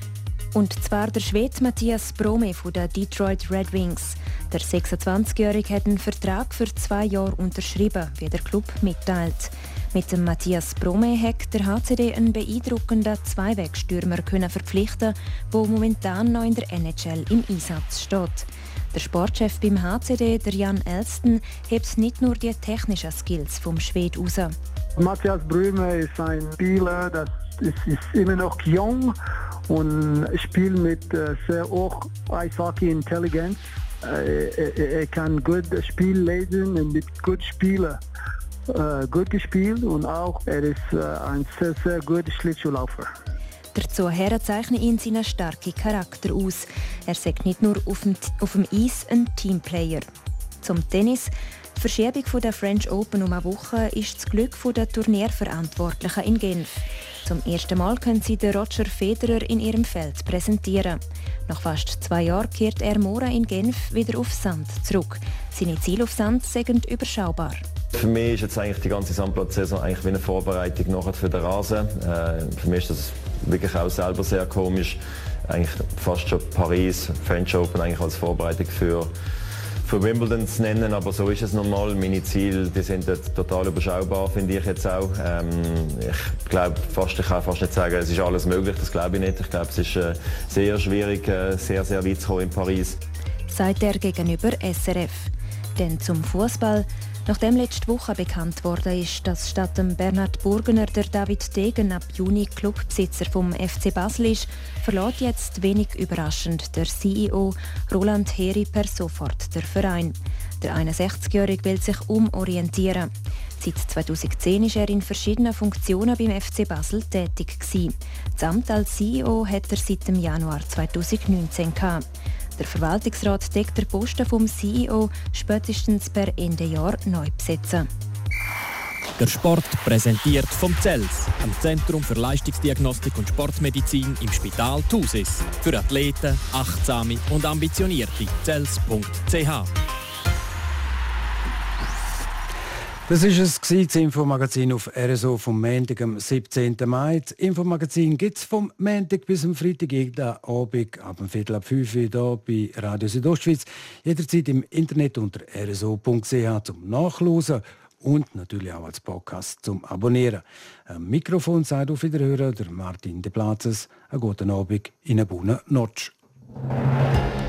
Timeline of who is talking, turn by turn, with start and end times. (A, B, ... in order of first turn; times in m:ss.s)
0:00.6-0:24.6 A
0:25.0-0:29.2 B
0:29.7-0:38.0 B
0:38.7-0:43.1 B
0:43.8-0:50.1 A
0:50.6-1:07.6 A
1:07.9-1:19.1 C
1:19.8-1:33.0 C
1:33.5-2:02.0 A
2:02.6-2:07.9 A
2:09.2-2:19.7 D
2:23.1-2:46.1 E